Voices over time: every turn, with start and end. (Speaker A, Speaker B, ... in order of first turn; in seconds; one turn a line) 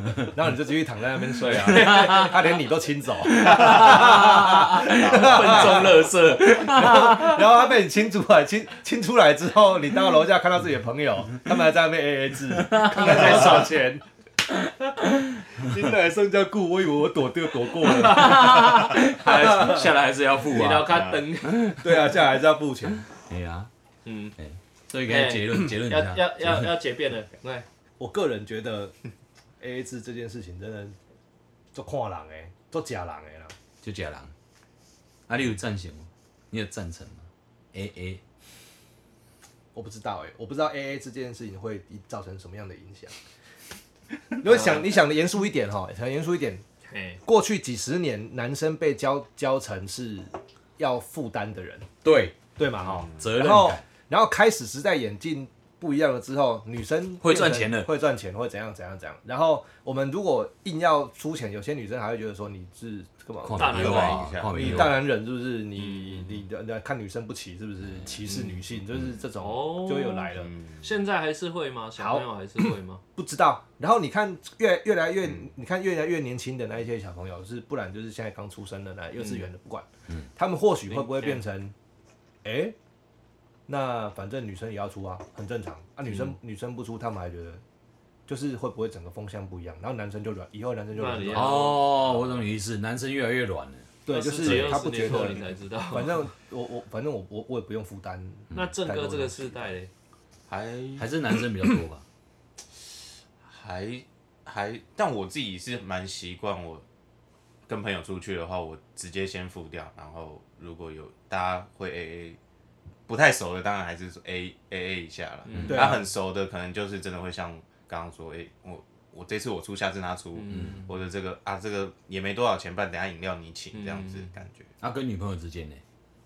Speaker A: 0.3-14.0
Speaker B: 1.4-2.4
Speaker C: 1.6-2.3
Speaker C: 3.2-7.4
Speaker D: 4.9-6.1
Speaker C: 12.7-13.5
Speaker B: 12.9-13.7
Speaker A: 15.6-19.9
Speaker C: 17.7-22.0
Speaker B: 20.4-21.8
Speaker D: 20.8-21.2
Speaker A: 21.8-23.0
Speaker C: 23.3-23.7
Speaker B: 24.0-24.4
Speaker C: 24.4-26.7
Speaker B: 25.1-27.7
Speaker A: 28.0-28.9
Speaker A: 29.6-31.0
Speaker A: 31.7-33.5
Speaker C: 33.8-34.3
Speaker C: 35.3-38.2
Speaker A: 39.7-43.1
Speaker A: 44.4-46.6
Speaker B: 44.5-44.9
Speaker B: 46.9-47.2
Speaker A: 47.2-51.9
Speaker C: 52.0-52.4
Speaker A: 52.6-70.5
Speaker D: 52.9-53.2
Speaker C: 53.2-53.8
Speaker C: 57.2-57.9
Speaker C: 63.4-65.0
Speaker B: 63.6-64.3
Speaker D: 63.6-64.9
Speaker B: 65.8-66.4
Speaker B: 69.4-73.0
Speaker D: 70.4-70.8
Speaker A: 72.0-72.3
Speaker A: 73.2-81.7
Speaker B: 79.2-79.4
Speaker B: 80.9-81.4
Speaker A: 82.4-82.8
Speaker A: 83.7-87.6
Speaker A: 88.3-91.7
Speaker B: 90.9-92.0
Speaker C: 91.3-93.9
Speaker A: 94.0-99.7
Speaker B: 94.1-96.3
Speaker C: 94.4-94.8
Speaker B: 98.5-99.9
Speaker D: 100.5-101.5
Speaker C: 101.0-102.0
Speaker D: 103.5-106.8
Speaker D: 107.7-112.4
Speaker D: 113.1-124.7
Speaker B: 115.5-115.9
Speaker C: 115.5-115.8
Speaker A: 115.7-116.0
Speaker B: 120.3-120.9
Speaker C: 120.5-120.8
Speaker B: 123.7-124.3
Speaker C: 124.8-125.8